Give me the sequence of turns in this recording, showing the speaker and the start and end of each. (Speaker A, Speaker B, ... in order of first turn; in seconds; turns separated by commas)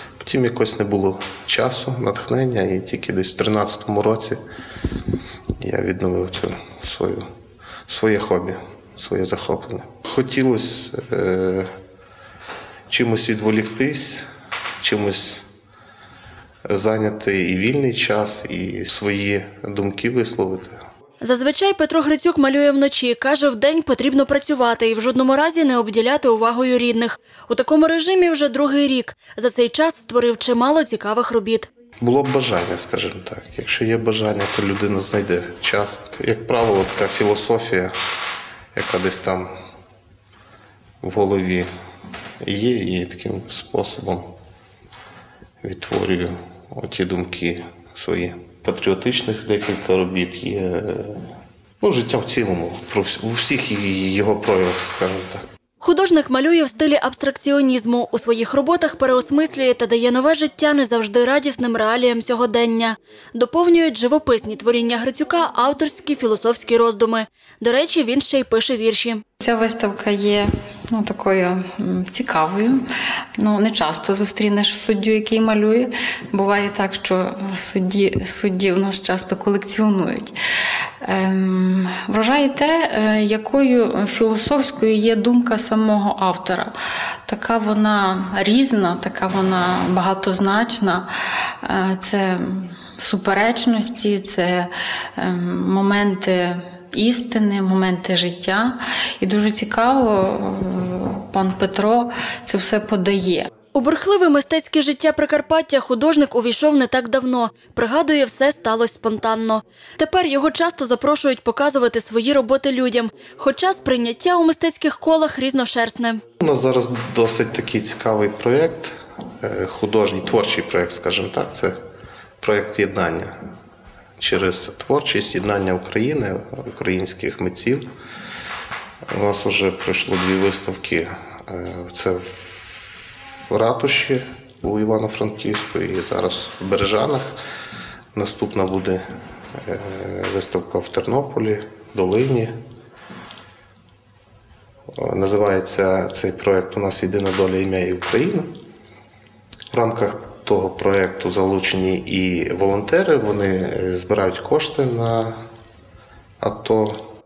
Speaker A: 0.2-4.4, Speaker A: 5.6-7.3, Speaker A: 7.9-11.7, Speaker A: 12.9-14.3, Speaker A: 14.8-15.4, Speaker A: 16.7-20.8, Speaker B: 21.2-31.7, Speaker A: 32.0-37.9, Speaker A: 38.7-39.5, Speaker A: 41.0-41.7, Speaker A: 42.4-44.3, Speaker A: 45.6-51.2, Speaker A: 51.8-55.4, Speaker B: 55.8-69.2, Speaker C: 69.4-72.8, Speaker C: 73.4-80.3, Speaker C: 81.0-86.7, Speaker C: 87.2-103.5, Speaker B: 103.7-116.2, Speaker A: 116.4-121.8, Speaker A: 122.4-123.3, Speaker A: 124.2-127.8, Speaker A: 129.1-137.3, Speaker A: 138.1-139.0, Speaker A: 139.6-142.5, Speaker A: 145.0-148.5, Speaker A: 149.7-155.4, Speaker A: 156.4-157.1